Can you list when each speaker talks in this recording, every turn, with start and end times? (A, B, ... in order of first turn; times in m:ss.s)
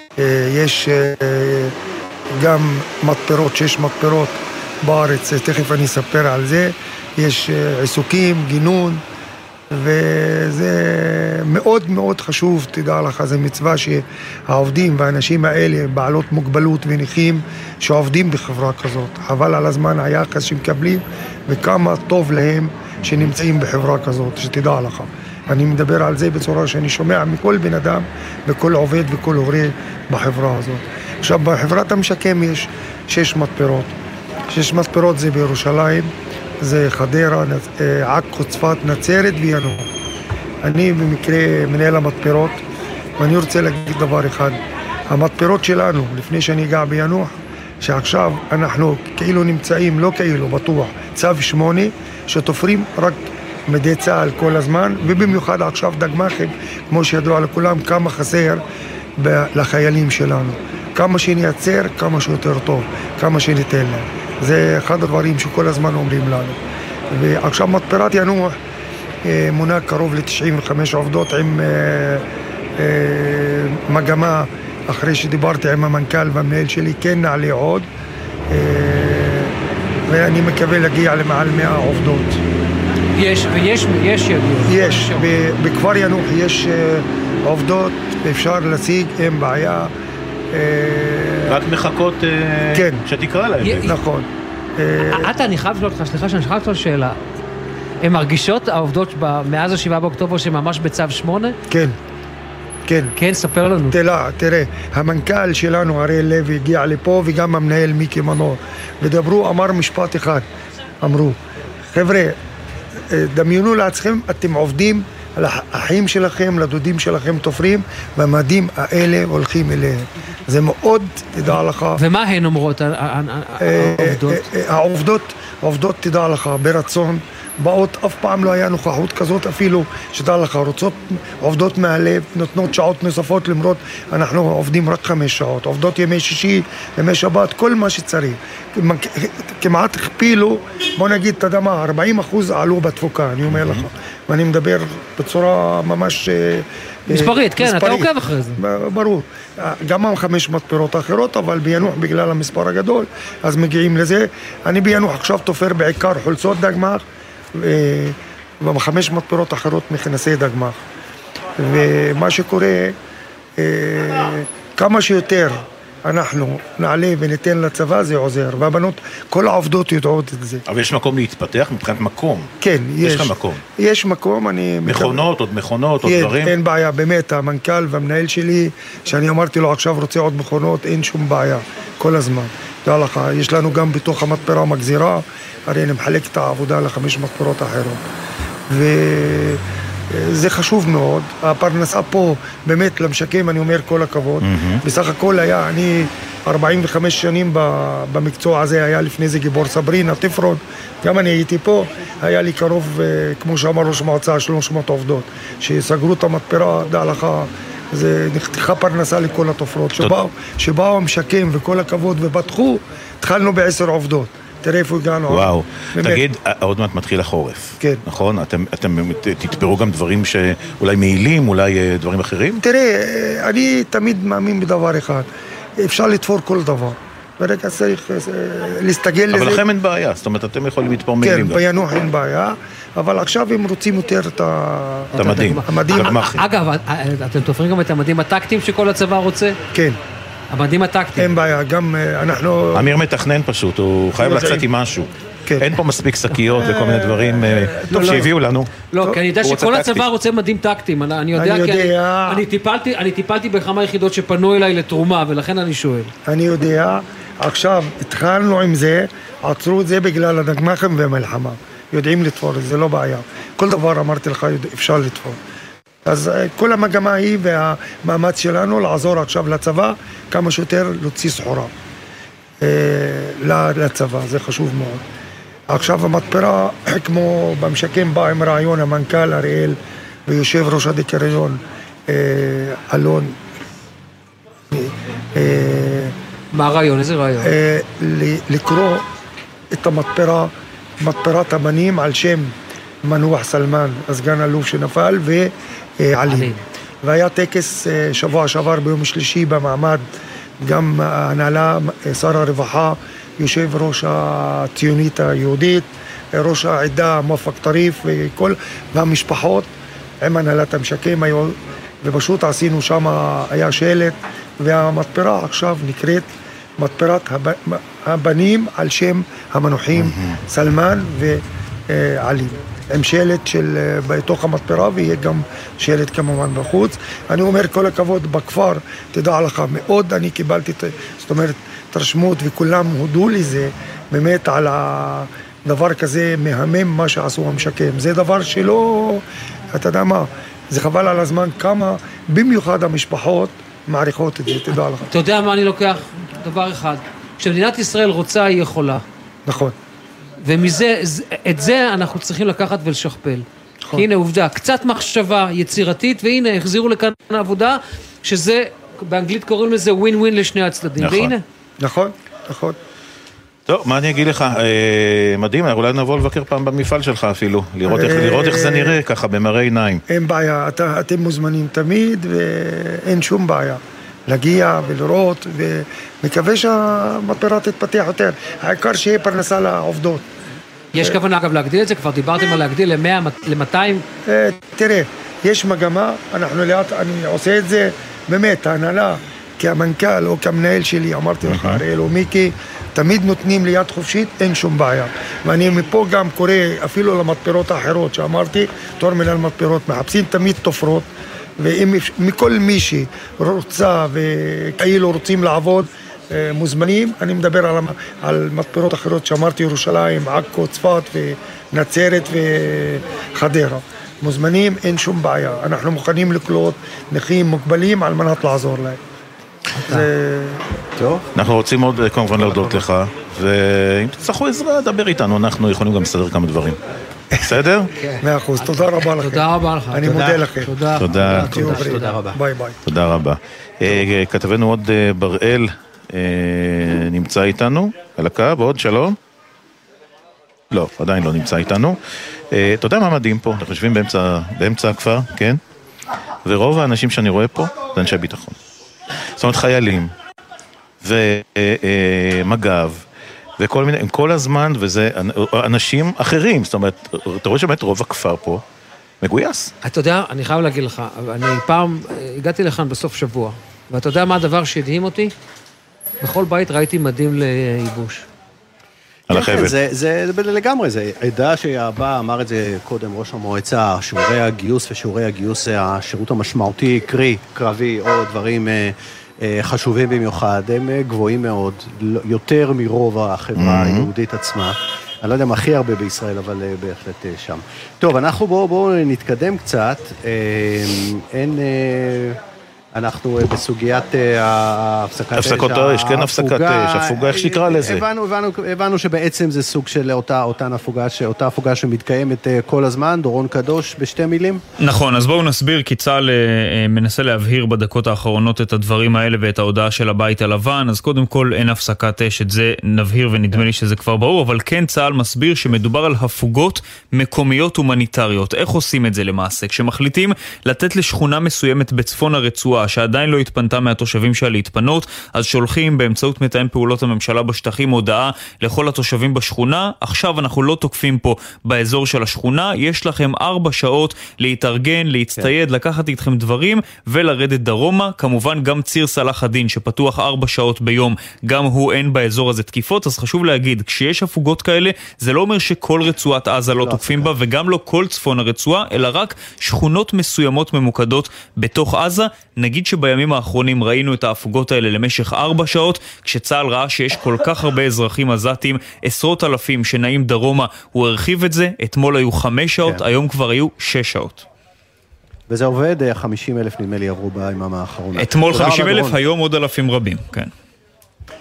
0:00.2-0:01.7 A
0:02.3-0:09.0 A
0:09.7-0:33.9 A
0:23.0-0:23.3 B
0:34.5-0:39.9 A
0:40.6-0:42.6 A
0:43.2-0:47.3 A
0:47.8-0:58.6 A
0:59.2-1:06.6 A
1:07.1-1:08.5 A
1:09.2-1:12.2 A
1:12.8-1:17.9 A
1:18.5-1:19.5 A
1:20.1-1:22.4 A
1:23.2-1:25.3 C
1:24.6-1:29.9 A
1:30.5-1:31.6 A
1:31.5-1:33.9 B
1:32.7-1:33.0 A
1:33.6-1:34.0 C
1:33.8-1:35.3 A
1:35.1-1:37.2 C
1:38.0-1:41.6 C
1:41.7-1:42.0 A
1:42.8-1:43.1 A
1:43.2-1:44.0 C
1:43.8-1:50.4 A
1:51.0-1:51.4 A
1:51.9-1:52.4 A
1:53.1-2:02.0 A
2:02.0-2:04.4 C
2:03.6-2:37.0 A
2:23.5-2:23.8 B
2:27.1-2:28.6 C
2:37.5-2:40.8 A
2:41.6-2:43.0 A
2:43.6-2:50.6 A
2:50.6-2:52.5 B
2:52.6-2:55.3 A
2:53.0-2:53.6 B
2:54.8-2:56.5 B
2:56.0-3:08.0 A
3:08.7-3:09.6 A
3:10.1-3:36.2 A
3:14.4-3:14.8 B
3:35.3-3:42.6 B
3:42.6-3:45.3 A
3:45.8-3:49.6 A
3:49.3-3:51.6 B
3:51.2-3:56.2 A
3:55.1-3:59.6 C
3:55.2-3:56.4 B
4:00.5-4:01.3 C
4:01.2-4:02.9 A
4:02.7-4:08.8 B
4:04.2-4:04.7 A
4:06.5-4:08.2 A
4:07.7-4:08.3 C
4:08.9-4:16.1 C
4:09.4-4:10.1 B
4:11.3-4:12.4 A
4:16.3-4:25.4 A
4:26.0-4:31.7 A
4:32.6-4:35.0 A
4:35.7-4:43.4 A
4:44.7-4:46.1 A
4:46.5-4:47.5 C
4:47.4-4:49.0 A
4:49.7-5:00.0 A
4:56.3-4:56.6 C
5:00.6-5:09.7 A
5:10.2-5:45.1 A
5:20.0-5:20.4 B
5:45.1-5:49.0 C
5:49.4-5:49.7 A
5:50.4-6:01.4 C
6:01.0-6:01.3 B
6:01.8-6:02.8 A
6:03.7-6:10.0 B
6:07.8-6:09.0 A
6:10.1-6:20.3 A
6:20.9-6:24.0 C
6:24.3-6:41.1 A
6:31.4-6:31.8 B
6:41.6-6:59.0 A
6:59.8-7:00.6 A
7:01.0-7:01.3 D
7:01.3-7:06.8 B
7:02.5-7:02.8 C
7:07.4-7:07.9 B
7:08.0-7:12.2 C
7:08.2-7:10.7 A
7:10.0-7:10.4 D
7:10.9-7:11.5 B
7:11.2-7:12.4 D
7:11.4-7:12.8 A
7:12.8-7:19.2 B
7:20.7-7:22.0 B
7:22.5-7:25.6 B
7:26.4-7:28.5 B
7:29.4-7:30.1 B
7:31.0-7:33.0 B
7:33.6-7:38.6 B
7:39.2-7:39.7 B
7:39.8-7:45.3 C
7:46.2-7:48.3 C
7:49.3-7:49.8 B
7:49.3-8:12.4 D
8:03.6-8:04.1 B
8:12.9-8:24.6 D
8:15.3-8:18.0 B
8:24.8-9:24.4 E
9:06.7-9:07.3 D
9:25.5-9:29.2 D
9:28.2-9:30.5 E